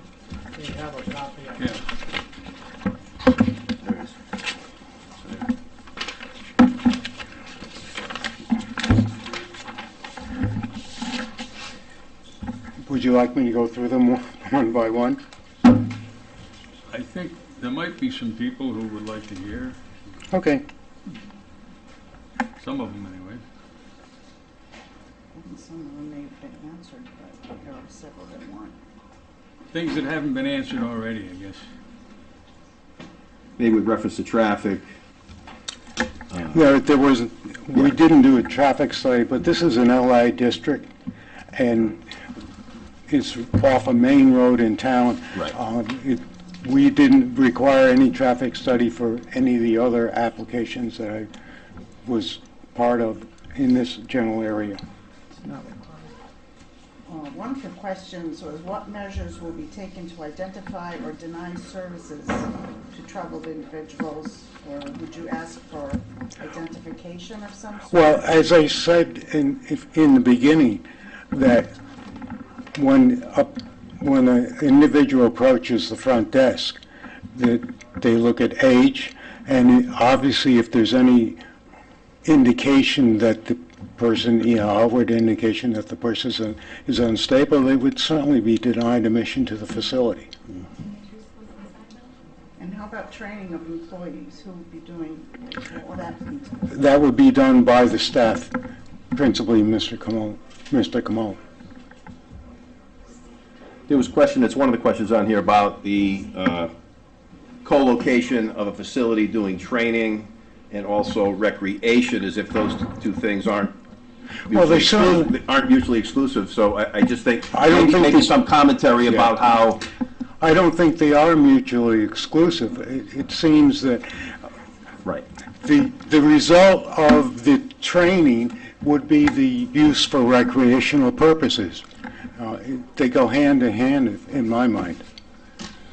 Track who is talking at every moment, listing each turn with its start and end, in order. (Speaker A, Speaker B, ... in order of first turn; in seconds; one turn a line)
Speaker A: 0.6-1.8
Speaker B: 1.6-1.8
Speaker C: 3.8-4.1
Speaker D: 12.8-15.2
Speaker B: 16.9-19.8
Speaker D: 20.3-20.6
Speaker B: 22.6-23.4
Speaker E: 25.3-28.8
Speaker B: 29.7-31.6
Speaker C: 33.6-34.9
Speaker D: 36.5-40.9
Speaker D: 41.5-42.0
Speaker D: 43.1-51.3
Speaker D: 52.0-54.8
Speaker A: 55.4-56.1
Speaker E: 57.1-68.4
Speaker D: 67.9-71.7
Speaker D: 72.8-76.8
Speaker D: 77.3-81.4
Speaker D: 82.2-90.3
Speaker E: 92.6-96.8
Speaker D: 96.7-98.5
Speaker D: 99.1-101.4
Speaker C: 103.9-106.7
Speaker C: 107.6-113.8
Speaker C: 114.5-119.8
Speaker D: 114.5-115.3
Speaker D: 117.5-118.3
Speaker D: 119.1-119.5
Speaker D: 120.4-124.5
Speaker D: 125.6-131.8
Speaker D: 132.4-135.0